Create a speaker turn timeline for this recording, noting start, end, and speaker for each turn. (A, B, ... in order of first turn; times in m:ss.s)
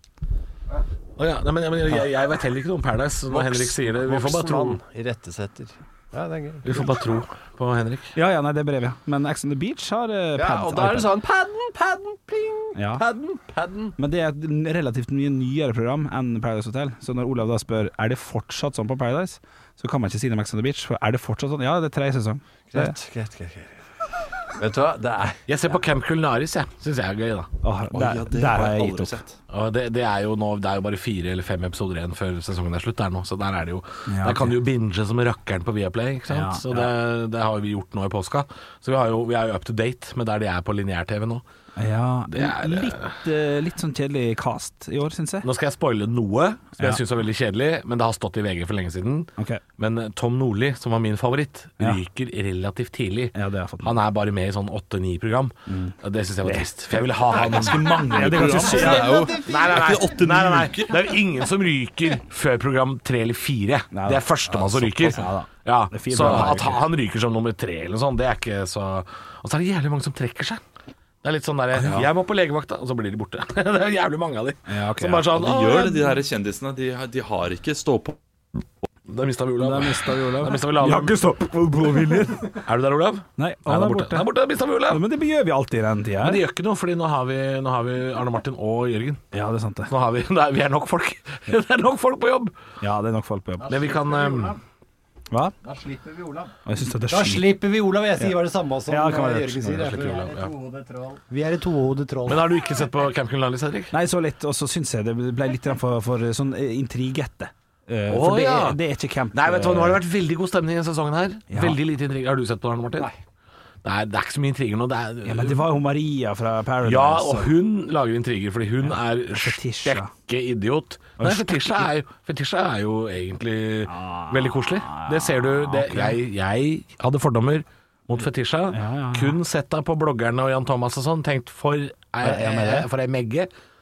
0:01.2-0:04.8 A
0:03.3-0:06.9 B
0:06.6-0:08.1 A
0:08.1-0:11.1 C
0:10.4-0:14.0 B
0:12.7-0:13.0 C
0:14.0-0:22.9 C
0:22.7-0:23.8 B
0:24.5-0:25.4 B
0:25.5-0:27.5 A
0:27.6-0:29.2 C
0:27.9-0:29.3 D
0:29.5-0:41.4 A
0:34.1-0:34.5 C
0:36.3-0:36.9 C
0:41.8-0:45.5 C
0:42.3-0:43.1 A
0:45.4-1:10.6 A
0:53.3-0:54.0 C
0:55.7-0:59.4 C
0:57.3-1:01.1 D
1:03.9-1:06.8 C
1:11.2-1:16.1 A
1:11.8-1:12.1 D
1:14.7-1:15.3 C
1:15.3-1:18.2 D
1:19.1-1:21.2 A
1:19.6-1:22.6 C
1:22.5-1:25.0 A
1:23.4-1:24.3 C
1:24.9-1:26.4 C
1:26.2-1:29.2 A
1:29.3-1:29.9 C
1:29.8-1:32.5 A
1:32.8-1:33.8 C
1:33.6-1:34.6 A
1:34.0-1:34.5 E
1:35.7-1:36.5 B
1:36.6-1:37.6 C
1:37.0-1:42.6 E
1:38.2-1:40.0 C
1:39.7-1:40.6 A
1:42.2-1:43.9 A
1:43.9-1:50.0 C
1:48.1-1:48.8 A
1:49.3-1:53.1 A
1:51.5-1:51.8 C
1:53.8-1:55.7 A
1:55.2-1:57.5 C
1:56.8-2:13.5 A
1:58.8-2:00.1 C
2:01.2-2:01.9 C
2:03.9-2:06.2 C
2:08.7-2:09.4 C
2:12.2-2:12.9 C